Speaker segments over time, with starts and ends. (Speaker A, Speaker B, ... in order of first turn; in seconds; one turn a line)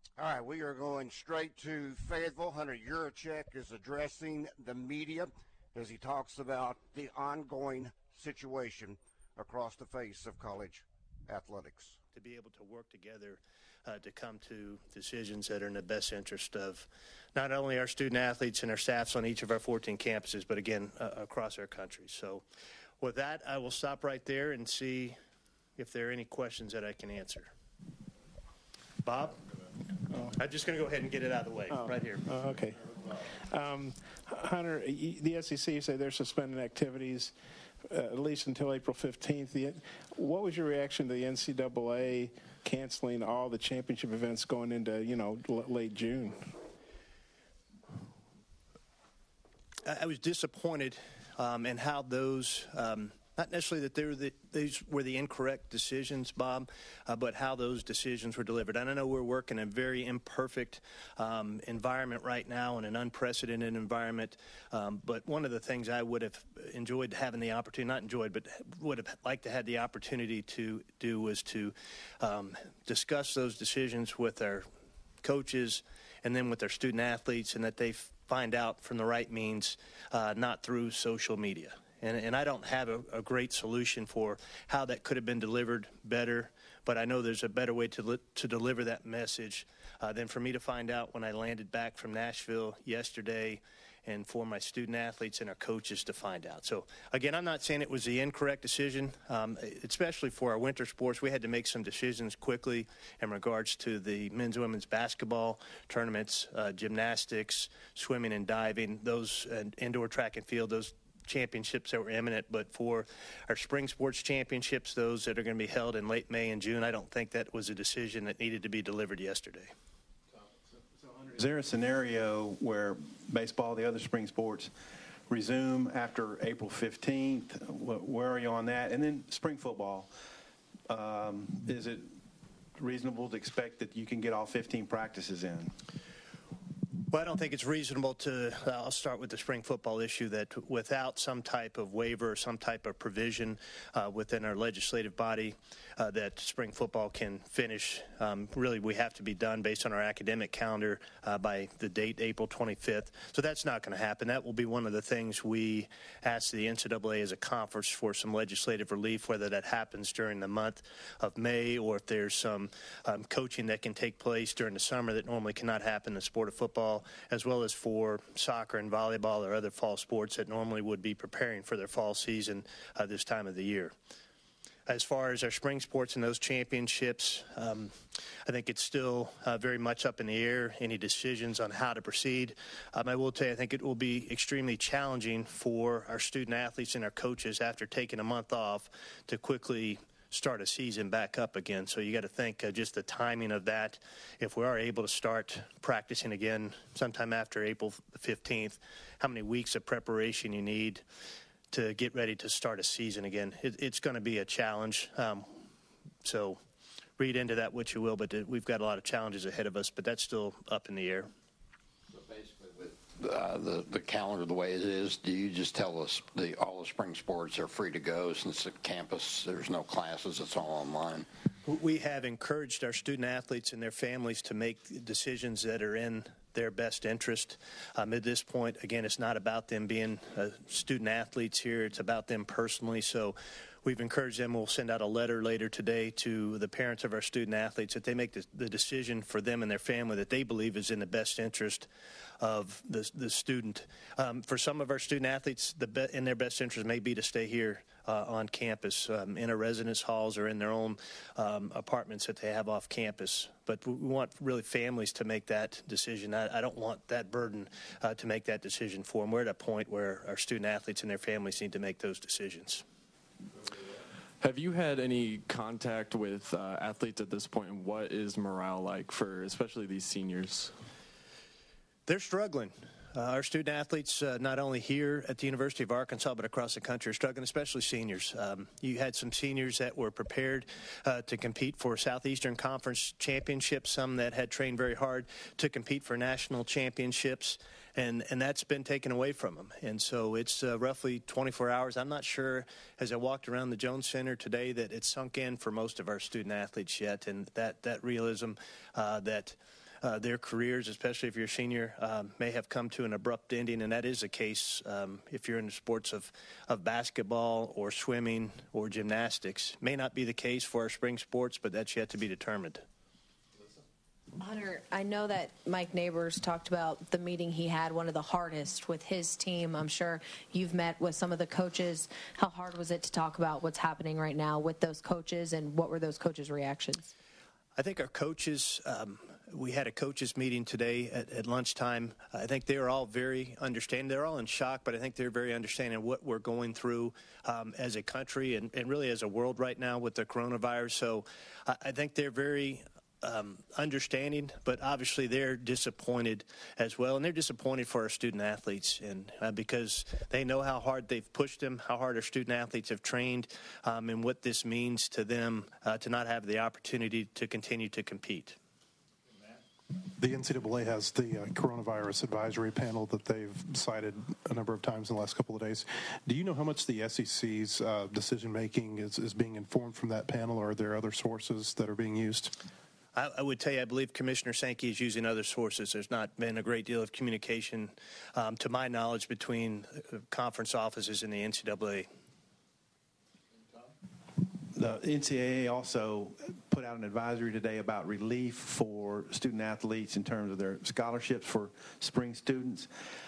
Speaker A: 0.2-12.0
Speaker B: 12.2-22.4
Speaker B: 23.0-25.2
Speaker B: 25.8-27.5
Speaker B: 29.0-29.4
Speaker C: 30.1-30.4
Speaker B: 30.4-32.3
Speaker C: 31.7-37.3
Speaker C: 37.9-46.5
Speaker B: 49.8-74.7
Speaker B: 75.2-119.7
Speaker D: 121.1-124.7
Speaker D: 125.3-130.1
Speaker D: 130.9-132.2
Speaker D: 132.8-135.7
Speaker B: 137.1-173.9
Speaker B: 174.9-177.9
Speaker B: 178.5-201.0
Speaker B: 201.7-205.6
Speaker B: 206.2-206.6
Speaker B: 207.2-211.3
Speaker E: 213.3-221.2
Speaker B: 221.6-241.9
Speaker B: 242.4-262.8
Speaker F: 264.4-270.7
Speaker B: 272.1-312.8
Speaker G: 314.4-327.1
Speaker B: 327.8-358.6
Speaker H: 360.2-372.5
Speaker B: 373.1-382.1
Speaker D: 384.4-392.9